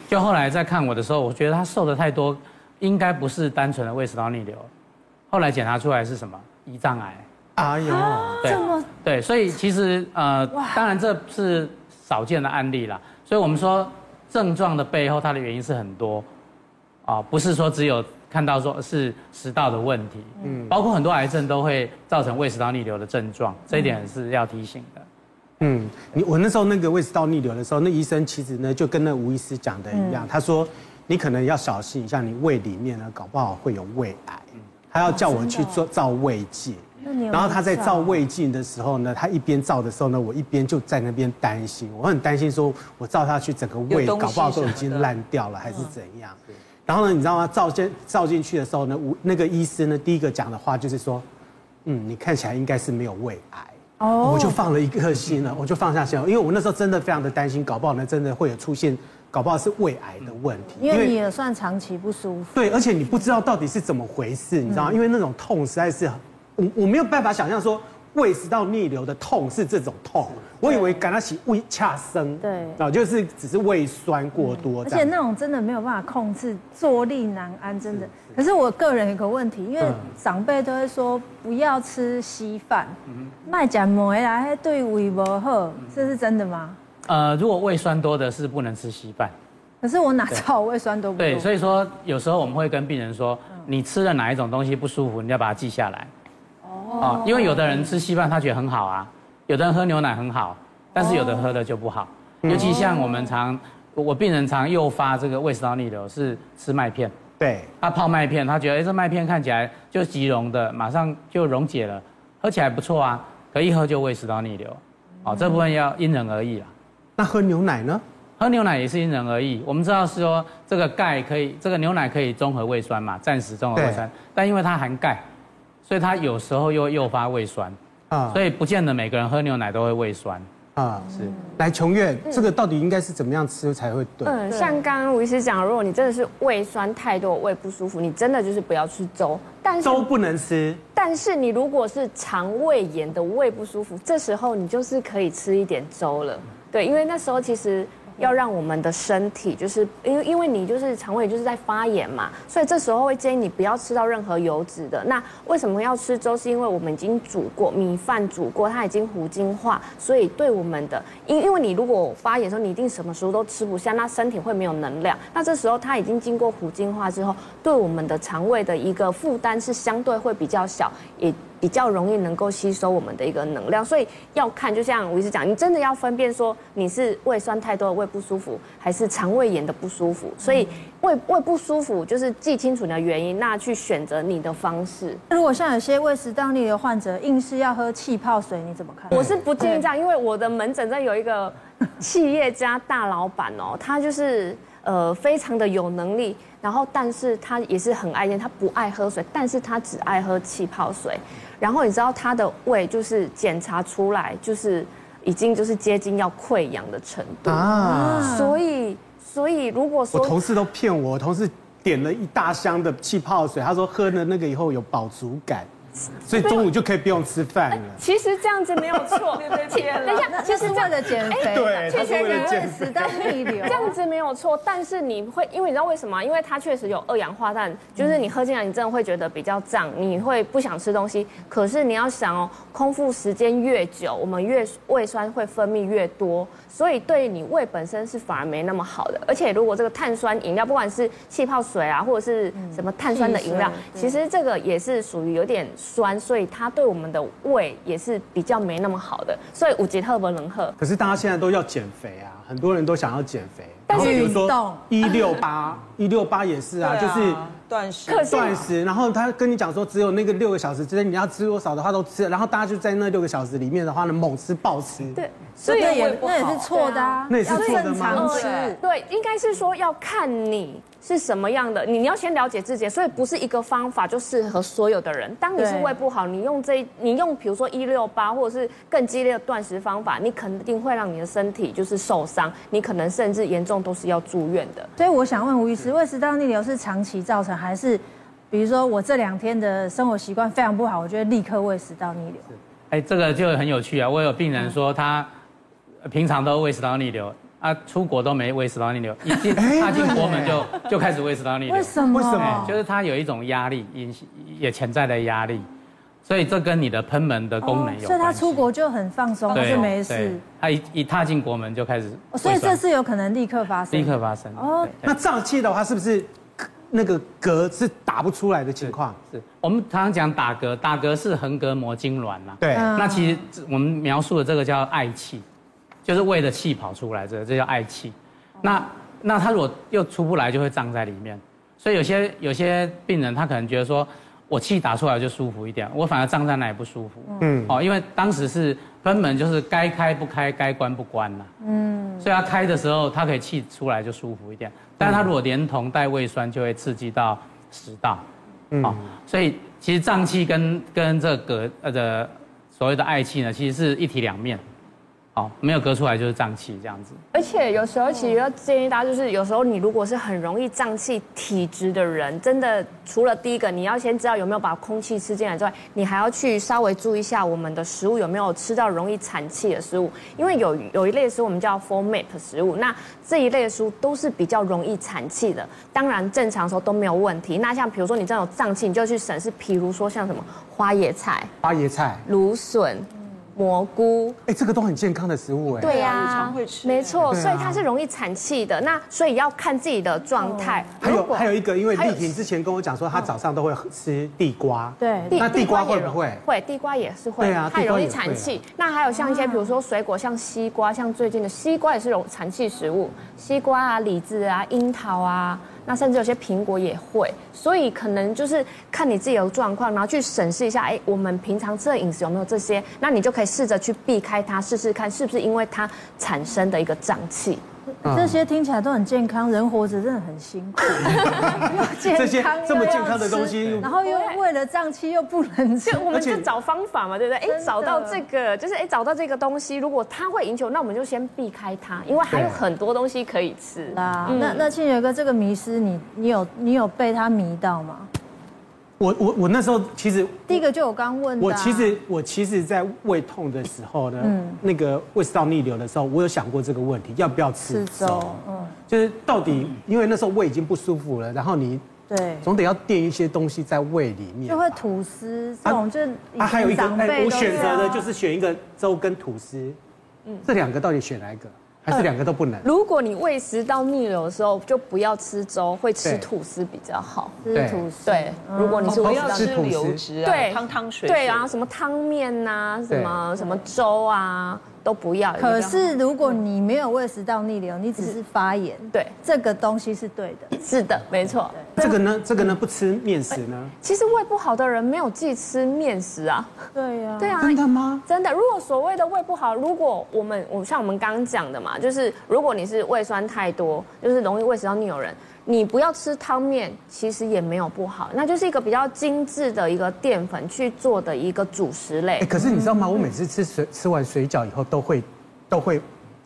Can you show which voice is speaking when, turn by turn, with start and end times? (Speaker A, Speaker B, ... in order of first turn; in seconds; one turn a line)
Speaker A: 0.1-4.7
Speaker A: 5.3-7.2
Speaker B: 7.5-8.6
Speaker C: 7.9-8.9
Speaker A: 8.4-16.2
Speaker C: 10.5-10.8
Speaker A: 17.1-25.1
Speaker B: 20.4-20.8
Speaker B: 25.6-51.2
Speaker C: 29.9-30.3
Speaker C: 35.1-35.8
Speaker C: 37.0-38.2
Speaker D: 43.9-45.1
Speaker B: 51.9-61.2
Speaker C: 54.0-54.6
Speaker C: 60.8-62.6
Speaker B: 62.5-75.1
Speaker C: 72.4-72.8
Speaker C: 74.8-86.8
Speaker A: 87.1-89.3
Speaker C: 89.8-91.5
Speaker A: 91.2-96.1
Speaker C: 96.6-97.9
Speaker A: 97.0-107.1
Speaker C: 101.0-101.5
Speaker B: 102.4-102.8
Speaker C: 102.5-103.2
Speaker B: 107.4-107.7
Speaker A: 107.8-116.7
Speaker B: 117.2-118.0
Speaker A: 118.4-125.2
Speaker B: 123.8-124.1
Speaker A: 125.8-127.8
Speaker B: 128.1-128.4
Speaker A: 128.3-130.4
Speaker B: 130.8-134.4
Speaker E: 134.2-140.1
Speaker C: 134.5-134.8
Speaker B: 139.8-140.8
Speaker E: 140.9-185.2
Speaker C: 185.3-189.7
Speaker E: 189.1-210.4
Speaker B: 207.4-208.4
Speaker C: 207.8-208.6
Speaker B: 210.1-215.7
Speaker B: 216.2-218.0
Speaker E: 216.3-216.7
Speaker E: 218.0-250.8
Speaker D: 219.3-220.6
Speaker C: 220.2-223.9
Speaker B: 221.2-223.0
Speaker C: 242.5-244.1
Speaker B: 250.8-257.4
Speaker E: 253.9-254.3
Speaker C: 253.9-254.8
Speaker D: 256.8-258.4
Speaker E: 258.1-258.6
Speaker B: 258.2-265.2
Speaker C: 265.2-268.8
Speaker D: 265.6-266.7
Speaker E: 265.6-284.9
Speaker B: 267.3-268.3
Speaker D: 268.2-268.7
Speaker C: 275.6-275.9
Speaker C: 285.0-292.5
Speaker A: 292.9-295.3
Speaker A: 296.0-305.7
Speaker B: 299.5-300.7
Speaker C: 301.7-302.8
Speaker B: 302.1-302.8
Speaker A: 306.2-308.7
Speaker C: 307.6-310.4
Speaker A: 309.5-312.8
Speaker D: 309.5-309.9
Speaker C: 312.3-314.9
Speaker A: 313.9-315.1
Speaker B: 315.0-319.2
Speaker A: 318.8-325.4
Speaker B: 322.6-323.0
Speaker C: 322.7-323.4
Speaker A: 326.0-341.5
Speaker B: 337.4-337.8
Speaker C: 341.6-342.3
Speaker A: 342.2-348.2
Speaker B: 345.0-345.3
Speaker B: 348.7-349.1
Speaker A: 348.8-354.6
Speaker A: 355.3-357.2
Speaker E: 357.3-381.5
Speaker B: 381.6-382.2
Speaker E: 382.2-384.4
Speaker B: 384.4-386.0
Speaker E: 385.8-391.2
Speaker D: 385.8-387.3
Speaker B: 387.3-387.8
Speaker C: 390.4-391.5
Speaker B: 391.0-396.4
Speaker E: 391.9-392.4
Speaker C: 395.0-395.5
Speaker E: 395.3-417.6
Speaker B: 397.4-398.6
Speaker C: 399.1-399.6
Speaker B: 418.0-418.4
Speaker C: 418.1-426.1
Speaker B: 421.0-423.9
Speaker E: 423.9-424.4
Speaker E: 425.8-434.6
Speaker B: 426.1-426.5
Speaker C: 427.4-428.2
Speaker B: 432.3-432.6
Speaker C: 433.9-438.1
Speaker B: 439.0-440.6
Speaker C: 440.5-442.0
Speaker B: 441.4-451.8
Speaker C: 444.2-444.6
Speaker C: 447.6-448.7
Speaker C: 452.1-452.4
Speaker B: 452.4-454.8
Speaker C: 454.5-458.1
Speaker B: 456.4-459.8
Speaker B: 460.4-462.7
Speaker E: 462.6-467.4
Speaker C: 467.4-469.0
Speaker B: 467.5-467.9
Speaker E: 468.0-469.6
Speaker D: 468.9-471.5
Speaker B: 468.9-470.0
Speaker E: 470.2-476.3
Speaker B: 472.9-473.2
Speaker C: 475.4-480.6
Speaker E: 480.5-481.9
Speaker B: 481.8-483.7
Speaker E: 483.8-486.6
Speaker C: 486.7-487.4
Speaker E: 487.2-502.3
Speaker B: 487.4-488.1
Speaker B: 502.2-505.8
Speaker C: 502.4-502.9